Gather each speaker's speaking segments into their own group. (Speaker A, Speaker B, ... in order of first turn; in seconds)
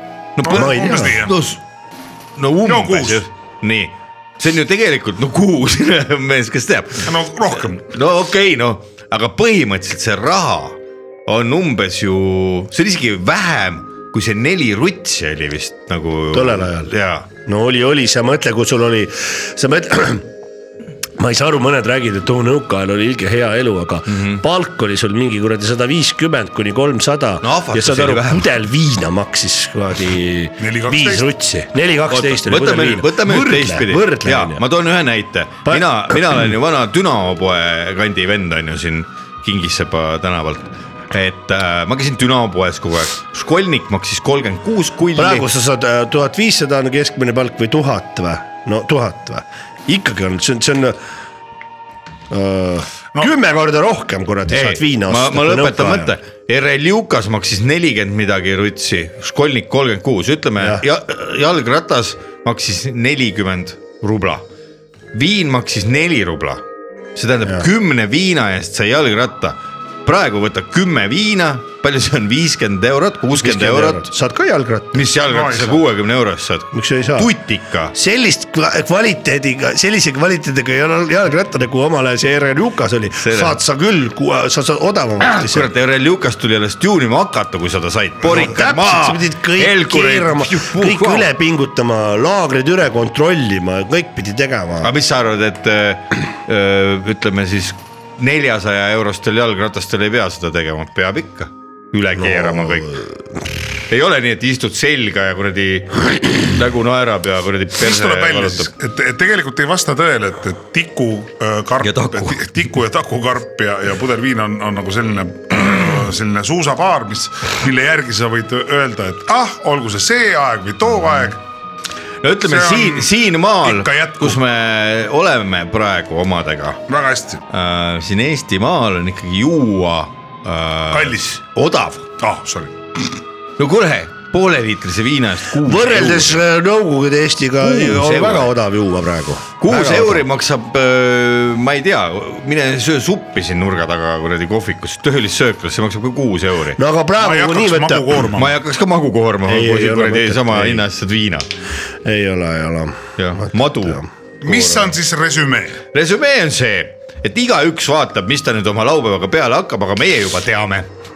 Speaker A: 0.4-1.6, 2.4-17.3, 24.1-24.4, 27.4-28.5, 32.1-45.5, 54.5-64.5, 65.1-66.6, 67.1-74.1, 74.9-77.9, 83.2-83.6, 85.2-91.3, 94.8-103.0, 103.9-108.7, 111.8-112.5, 122.2-126.8, 127.5-132.1, 133.6-136.4, 137.6-138.5, 139.6-146.8, 148.3-151.4, 153.2-154.9, 155.9-160.9
Speaker B: 0.5-1.3, 2.7-3.2, 7.1-7.9, 30.6-31.3, 75.3-75.8, 107.8-121.4, 122.4-123.1, 123.6-124.4, 126.9-127.4, 130.9-131.4, 132.2-132.7, 147.2-148.6, 154.4-155.8
Speaker C: 0.5-1.2, 16.3-16.9, 17.4-20.3, 21.2-34.6, 35.7-36.0, 45.2-51.0, 52.3-56.1, 73.4-75.1, 76.7-77.3, 77.9-85.7, 88.2-94.9, 102.2-103.1, 135.6-140.2, 146.8-148.3, 149.4-150.8, 152.1-154.1